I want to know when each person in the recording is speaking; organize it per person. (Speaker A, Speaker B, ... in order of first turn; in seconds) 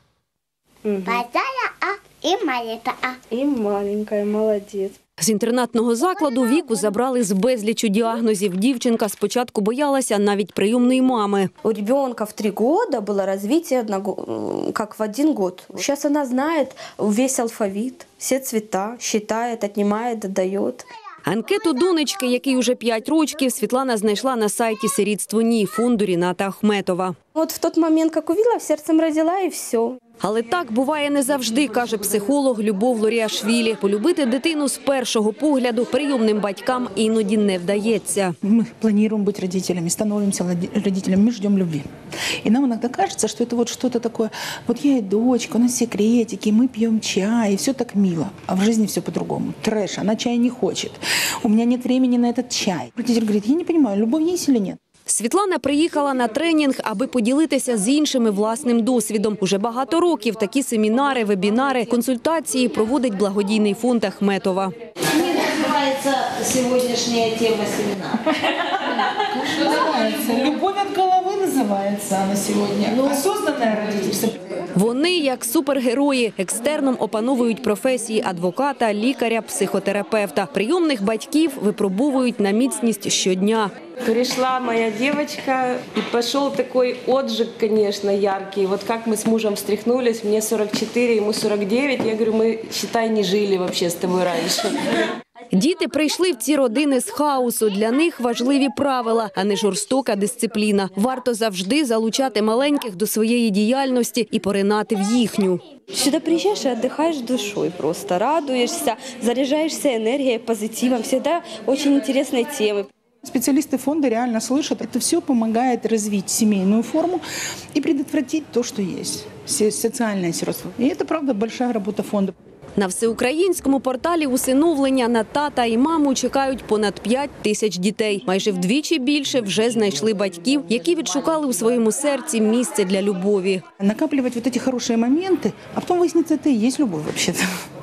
Speaker A: 0.9-1.2, 3.3-4.9, 11.6-20.9, 27.3-30.0, 105.9-112.9
Speaker B: 1.1-3.2
Speaker C: 5.2-11.5, 21.3-27.1, 30.2-38.3, 55.1-64.7, 74.8-83.7, 95.5-105.6, 122.8-133.6
Speaker D: 38.4-41.9, 42.4-54.8, 69.2-74.6, 113.2-122.3, 133.8-137.5
Speaker E: 65.1-68.2
Speaker F: 84.0-95.0